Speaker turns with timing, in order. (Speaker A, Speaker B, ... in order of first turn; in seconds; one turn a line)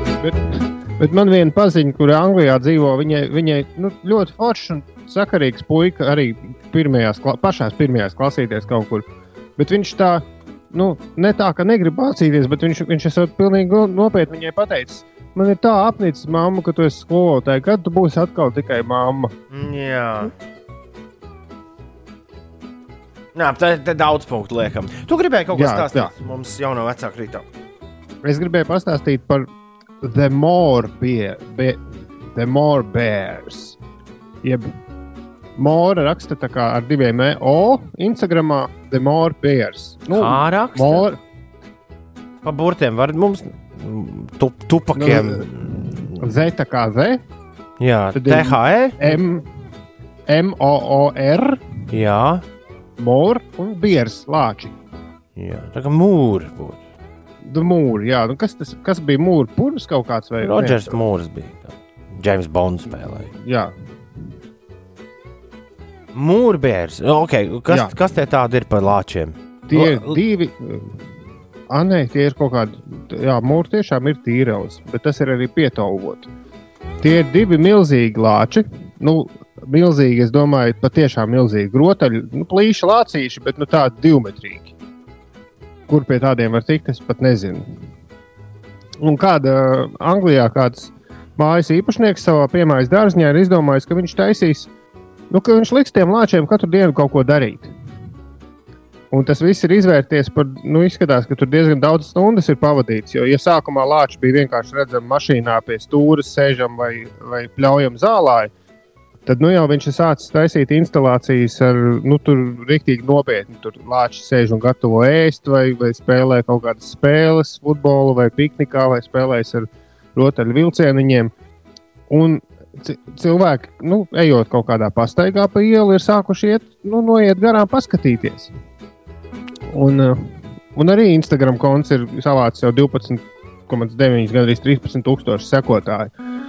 Speaker A: 0.1-19.3
Speaker B: 19.5-20.3
Speaker B: 23.3-27.4
Speaker A: 25.5-26.1
Speaker A: 28.2-29.5
Speaker A: 30.0-33.8
Speaker A: 34.4-34.7
Speaker A: 35.6-41.2
Speaker B: 40.1-41.1
Speaker B: 42.4-46.2
Speaker A: 45.0-45.5
Speaker A: 46.2-47.2
Speaker B: 47.8-49.2
Speaker A: 48.1-49.5
Speaker A: 50.3-51.6
Speaker B: 51.9-52.4
Speaker A: 53.0-54.8
Speaker B: 55.4-56.8
Speaker A: 57.4-61.0
Speaker B: 60.4-63.3
Speaker A: 62.9-63.7
Speaker B: 66.1-70.2
Speaker A: 69.7-71.0
Speaker A: 71.7-76.3
Speaker A: 77.0-84.7
Speaker A: 85.9-87.8
Speaker A: 89.0-94.7
Speaker A: 95.3-97.7
Speaker A: 99.1-108.5
Speaker A: 109.2-121.3
Speaker A: 122.1-128.5
Speaker A: 129.7-136.1